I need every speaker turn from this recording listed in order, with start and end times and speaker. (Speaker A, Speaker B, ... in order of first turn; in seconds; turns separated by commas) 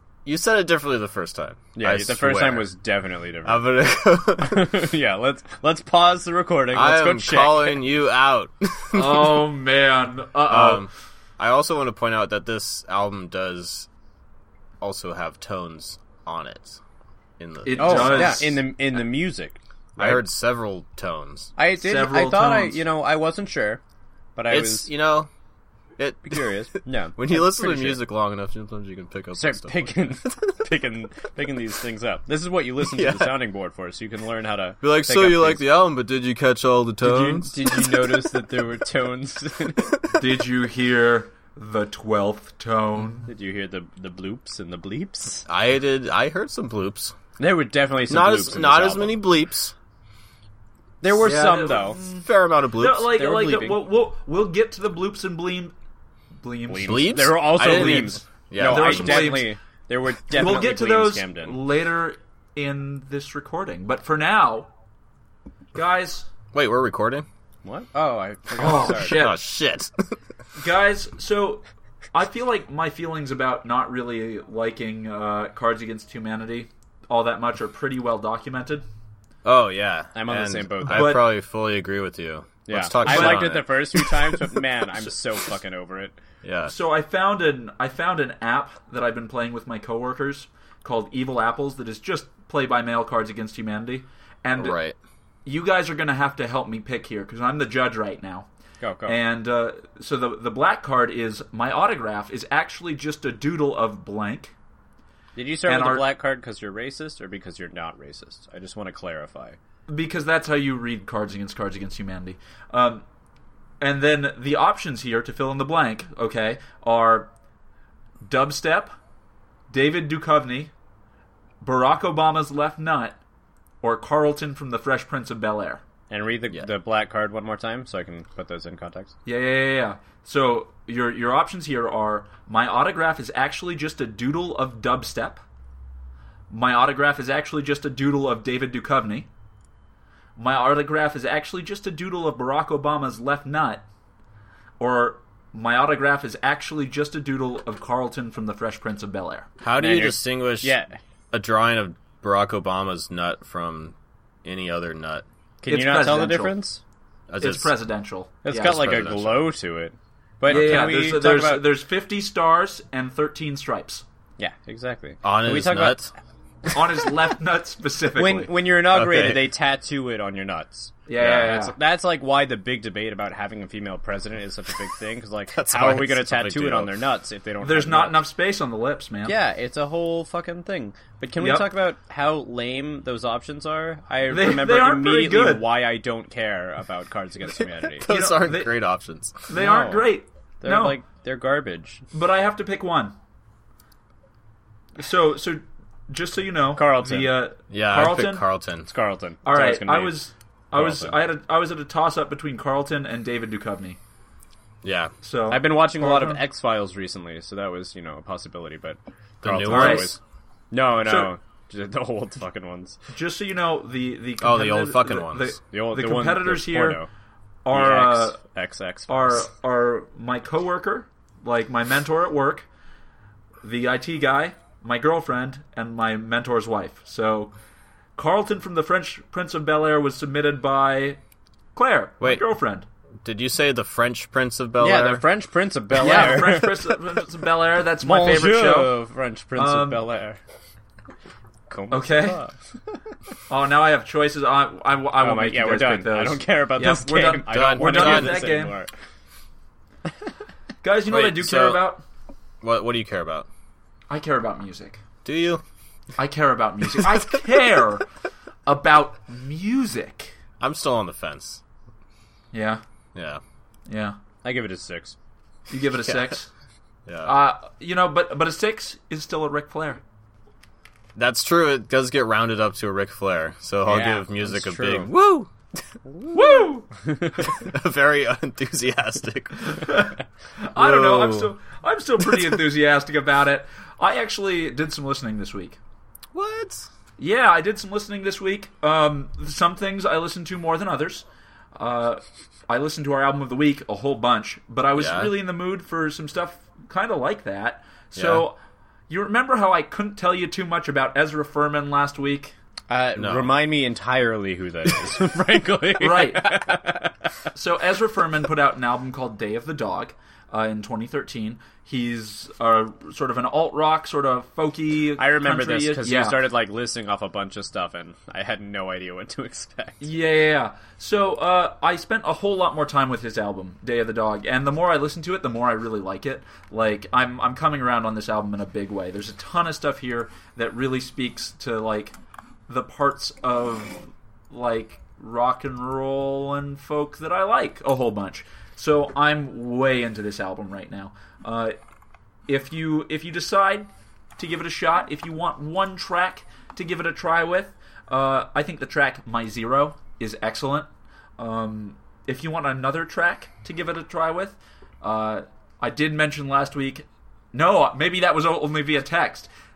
Speaker A: 0.2-2.7, Speaker B: 1.7-3.8, Speaker A: 3.4-4.8, Speaker B: 4.4-7.8, Speaker A: 6.7-9.5, Speaker C: 8.9-10.9, Speaker A: 10.5-13.9, Speaker A: 14.8-16.8, Speaker A: 17.4-18.4, Speaker C: 17.6-18.6, Speaker B: 17.8-20.2, Speaker A: 20.0-21.5, Speaker B: 21.6-23.8, Speaker C: 21.7-22.8, Speaker B: 24.4-24.9, Speaker A: 24.5-25.3, Speaker A: 26.0-29.9, Speaker B: 26.2-28.0, Speaker B: 29.4-35.7, Speaker A: 32.8-33.3, Speaker A: 34.8-38.0, Speaker B: 37.0-40.0, Speaker C: 40.2-43.3, Speaker B: 43.3-45.5, Speaker A: 45.5-47.1, Speaker B: 47.4-49.2, Speaker A: 48.1-49.7, Speaker B: 51.0-52.0, Speaker C: 51.1-55.7, Speaker A: 52.1-53.1, Speaker B: 53.0-53.8, Speaker C: 56.4-57.0, Speaker B: 56.7-61.6, Speaker A: 56.8-59.4, Speaker C: 57.6-59.5, Speaker C: 60.3-64.7, Speaker C: 65.7-66.3, Speaker A: 66.5-67.2, Speaker B: 67.6-69.2, Speaker C: 68.6-69.4, Speaker A: 69.0-70.1, Speaker C: 70.5-78.8, Speaker A: 79.4-84.6, Speaker B: 80.1-81.2, Speaker C: 80.9-81.2, Speaker B: 82.7-86.2, Speaker C: 83.0-83.5, Speaker A: 86.4-86.7, Speaker C: 86.7-94.8, Speaker A: 94.5-95.0, Speaker C: 95.5-98.5, Speaker B: 98.8-99.2, Speaker C: 99.1-104.5, Speaker B: 105.3-109.6, Speaker C: 105.7-106.0, Speaker C: 109.9-113.0, Speaker C: 113.8-117.3, Speaker C: 118.2-118.9, Speaker C: 119.7-120.7, Speaker C: 121.6-123.2, Speaker C: 123.8-125.8, Speaker B: 126.1-129.1, Speaker C: 129.2-135.4, Speaker C: 136.5-139.3, Speaker C: 140.4-143.8, Speaker C: 144.8-149.5, Speaker A: 149.6-150.7, Speaker B: 149.8-151.0, Speaker A: 151.3-155.2, Speaker B: 155.6-156.8, Speaker C: 155.7-156.6, Speaker A: 157.3-157.7, Speaker C: 157.4-158.8, Speaker B: 158.4-161.6, Speaker A: 158.5-159.5, Speaker C: 160.5-164.0, Speaker A: 160.5-160.9, Speaker B: 164.4-166.0, Speaker A: 165.2-166.1, Speaker C: 166.7-168.5, Speaker B: 168.2-178.2, Speaker A: 168.9-169.4, Speaker C: 171.1-171.7, Speaker A: 171.2-171.5, Speaker A: 175.5-176.9, Speaker C: 177.6-179.3, Speaker B: 179.2-188.1, Speaker C: 181.4-181.7, Speaker C: 184.3-185.7, Speaker A: 187.6-189.5, Speaker C: 188.1-188.7, Speaker C: 189.5-191.0, Speaker B: 189.5-190.1, Speaker B: 190.6-192.1, Speaker C: 192.1-193.2, Speaker C: 195.0-198.4, Speaker B: 196.8-197.3, Speaker A: 197.7-198.9, Speaker B: 198.9-200.2, Speaker C: 199.4-204.0, Speaker B: 200.7-201.1, Speaker A: 204.8-205.1, Speaker C: 205.2-206.4, Speaker B: 205.5-210.2, Speaker A: 209.4-210.2, Speaker C: 209.7-210.1, Speaker B: 210.7-213.0, Speaker C: 211.0-211.3, Speaker C: 213.1-217.0, Speaker A: 214.4-215.5, Speaker B: 215.7-217.1, Speaker C: 217.6-218.4, Speaker B: 217.7-219.1, Speaker C: 219.1-222.7, Speaker C: 223.6-227.5, Speaker C: 228.2-231.2, Speaker C: 231.7-232.8, Speaker A: 233.2-235.2, Speaker B: 234.8-236.9, Speaker C: 235.9-239.0, Speaker B: 238.0-240.4, Speaker C: 239.5-240.0, Speaker B: 241.7-242.5, Speaker C: 241.9-242.4, Speaker C: 243.5-248.7, Speaker B: 245.2-248.9, Speaker A: 247.5-248.4, Speaker C: 250.8-252.0, Speaker A: 251.1-251.8, Speaker A: 252.6-253.5, Speaker C: 254.1-255.0, Speaker A: 255.2-255.6, Speaker C: 256.2-258.1, Speaker C: 258.6-260.3, Speaker A: 260.6-261.6, Speaker C: 262.5-262.8, Speaker A: 263.1-263.4, Speaker C: 263.9-264.2, Speaker B: 264.4-265.1, Speaker C: 265.7-266.5, Speaker A: 267.1-267.4, Speaker C: 267.2-270.0, Speaker A: 271.1-275.5, Speaker B: 273.9-275.1, Speaker B: 276.1-277.5, Speaker C: 276.3-276.9, Speaker A: 277.4-279.9, Speaker C: 279.6-285.8, Speaker A: 280.8-281.3, Speaker B: 280.8-281.4, Speaker A: 286.3-286.9, Speaker C: 287.2-298.6, Speaker A: 295.0-295.3, Speaker A: 298.1-298.4, Speaker C: 299.1-302.5, Speaker B: 302.9-307.2, Speaker A: 303.2-303.5, Speaker C: 306.0-306.6, Speaker C: 307.5-316.4, Speaker B: 315.2-320.1, Speaker C: 320.0-332.1, Speaker C: 332.7-341.7, Speaker C: 342.5-350.9, Speaker C: 351.4-359.5